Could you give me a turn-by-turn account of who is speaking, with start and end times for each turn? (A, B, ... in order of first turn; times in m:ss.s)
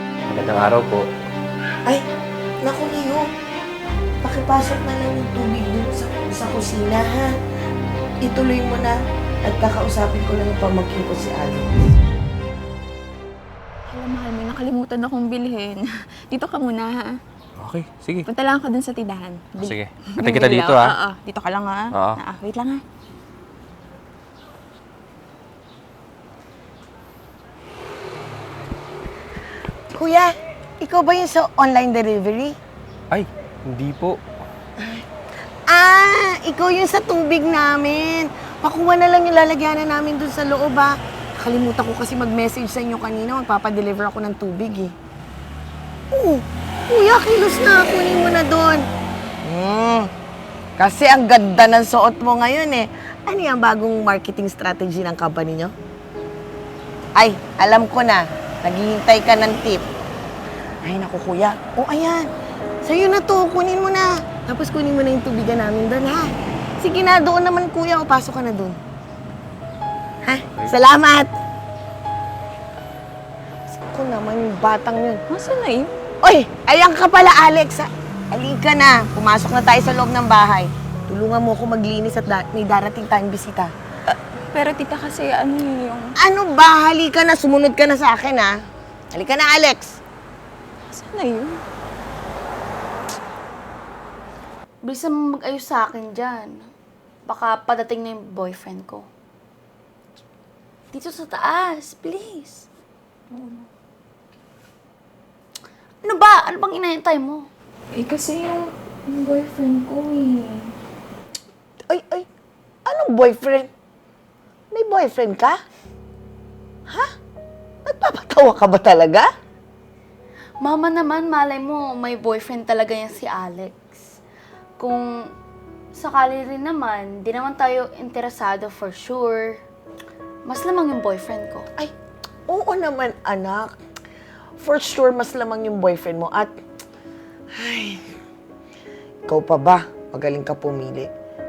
0:00.2-0:01.1 A
0:02.6-0:03.3 B
0:04.2-0:07.4 B
0:08.2-0:11.9 B
0:13.9-0:17.2 C
0:17.6-0:18.3 A
0:18.2-0:22.8 C
0:19.6-0:21.0 A
0:21.9-0:22.2 A
0:29.9-0:32.6 B
0:33.1-0:34.2 A
0:34.8-0:35.0 B
0:35.7-0:44.9 B
0:46.1-0:48.8 B
0:49.4-0:50.1 B
0:50.8-0:55.7 B
0:57.2-0:59.8 B
1:00.8-1:02.3 B
1:02.8-1:08.8 B
1:10.2-1:11.3 B
1:13.8-1:15.2 B
1:15.3-1:15.9 C
1:16.2-1:23.7 B
1:24.5-1:26.1 C
1:26.2-1:28.5 B
1:29.1-1:30.0 B
1:30.9-1:31.6 C
1:34.8-1:36.5 D
1:37.3-1:39.1 D
1:40.9-1:42.6 D
1:43.3-1:43.7 C
1:46.0-1:47.4 D
1:47.9-1:50.7 C
1:51.9-1:52.2 B
1:52.8-1:53.7 B
1:54.7-1:55.6 B
1:57.8-1:59.3 B
2:00.6-2:04.0 D
2:04.8-2:05.1 D
2:05.9-2:09.6 D
2:10.4-2:11.6 D
2:12.5-2:13.7 B
2:14.6-2:16.5 B
2:17.6-2:18.1 B
2:19.3-2:21.1 B